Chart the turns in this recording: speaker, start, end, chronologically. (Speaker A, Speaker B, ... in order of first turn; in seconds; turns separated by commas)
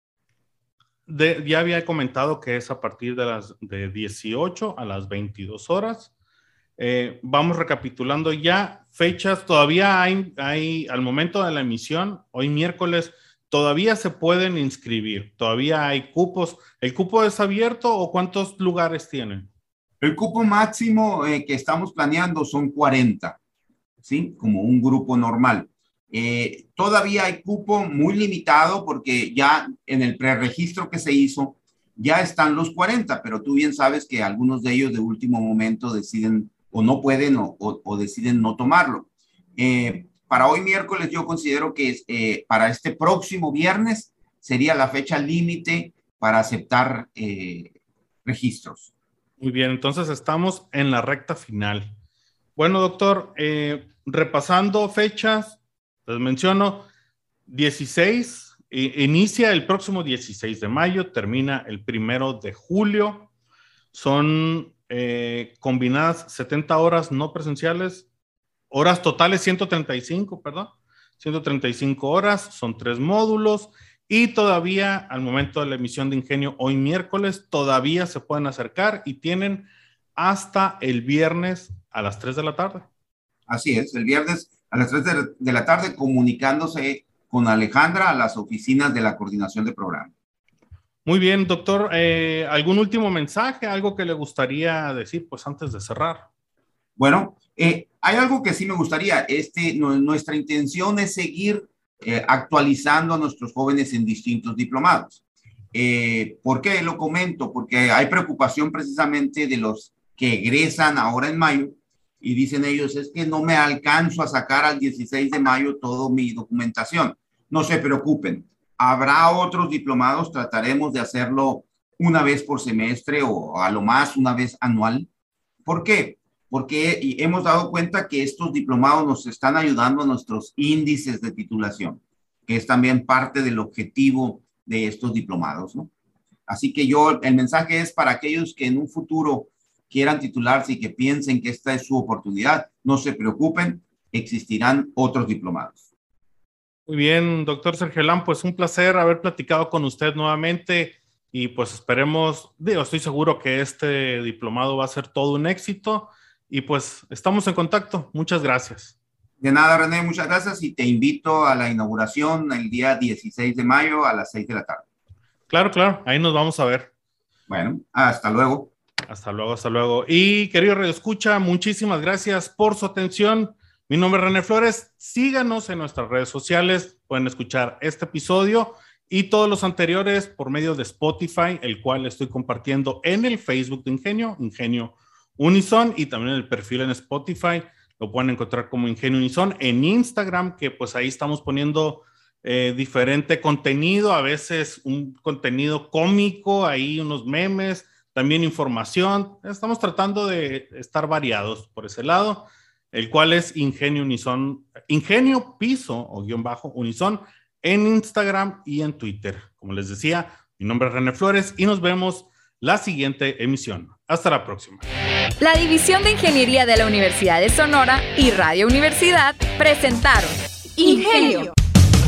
Speaker A: 1.1-6.1, Speaker A: 6.8-19.5, Speaker B: 20.0-23.4, Speaker B: 24.0-47.7, Speaker B: 48.2-48.9, Speaker A: 49.4-51.9, Speaker A: 52.6-56.9, Speaker A: 57.5-63.3, Speaker A: 63.9-68.1, Speaker A: 68.7-82.9, Speaker B: 83.5-90.1, Speaker A: 91.1-96.3, Speaker B: 97.0-105.2, Speaker B: 105.7-125.1, Speaker B: 125.7-135.9, Speaker B: 136.5-145.8, Speaker A: 146.9-159.0, Speaker B: 159.4-164.8, Speaker A: 165.5-166.9, Speaker B: 167.5-168.7, Speaker A: 169.1-214.8, Speaker C: 215.4-221.5